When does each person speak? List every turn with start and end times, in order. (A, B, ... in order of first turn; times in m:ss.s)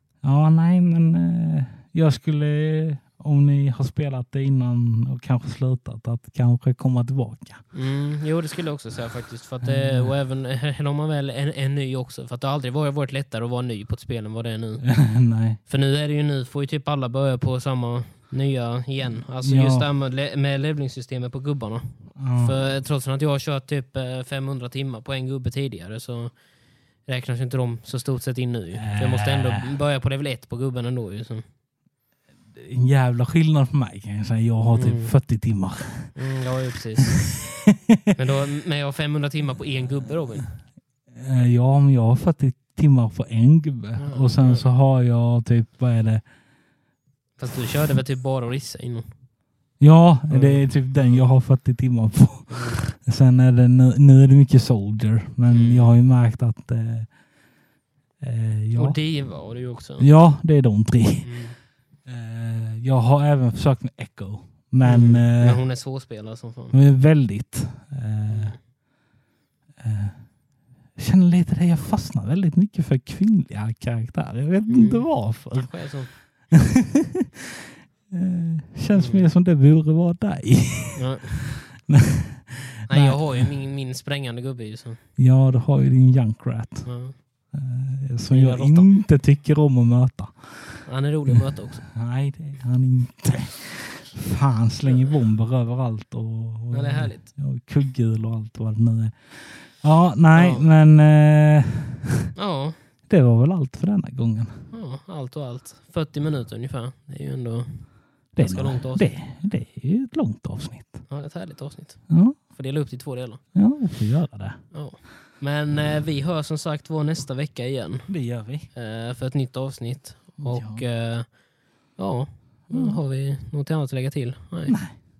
0:00.2-0:07.6 A
0:07.7-0:14.8 B
0:09.6-0:10.1 A
0:14.8-0:15.6 A
0:15.6-0:26.3 B
0:19.4-0:19.9 A
0:22.2-0:22.6 A
0:27.0-0:31.4 B
0:28.7-0:29.7 A
0:32.5-0:36.2 A
0:34.7-0:35.1 B
0:36.1-0:37.2 B
0:37.2-0:38.1 A
0:38.1-0:40.5 B
0:41.1-0:46.2 A
0:44.0-0:44.7 B
0:47.4-0:49.1 B
0:49.8-0:57.1 A
0:50.3-0:51.2 B
0:52.5-0:52.8 B
0:55.5-0:55.9 B
0:58.2-0:59.0 A
0:58.8-1:00.1 B
1:00.0-1:01.3 A
1:01.2-1:01.6 B
1:02.0-1:05.6 A
1:04.8-1:06.8 B
1:06.7-1:08.5 A
1:08.3-1:08.6 B
1:09.8-1:10.2 A
1:11.0-1:15.7 A
1:14.7-1:16.1 B
1:16.5-1:17.5 A
1:18.1-1:23.4 A
1:18.9-1:19.2 B
1:21.0-1:21.6 B
1:22.9-1:25.0 B
1:25.2-1:26.9 A
1:26.8-1:27.2 B
1:27.5-1:42.3 A
1:28.3-1:28.9 B
1:30.8-1:31.8 B
1:34.8-1:35.1 B
1:36.7-1:37.3 B
1:40.3-1:40.7 B
1:42.4-1:42.8 B
1:43.1-1:44.6 A
1:44.7-1:49.1 B
1:48.3-1:51.0 A
1:51.1-1:53.4 B
1:52.1-1:52.4 A
1:53.5-1:54.6 A
1:54.7-1:58.1 B
1:58.1-1:58.7 A
1:58.7-2:01.3 B
2:00.4-2:00.8 A
2:02.0-2:04.8 B
2:02.7-2:03.0 A
2:04.7-2:05.0 A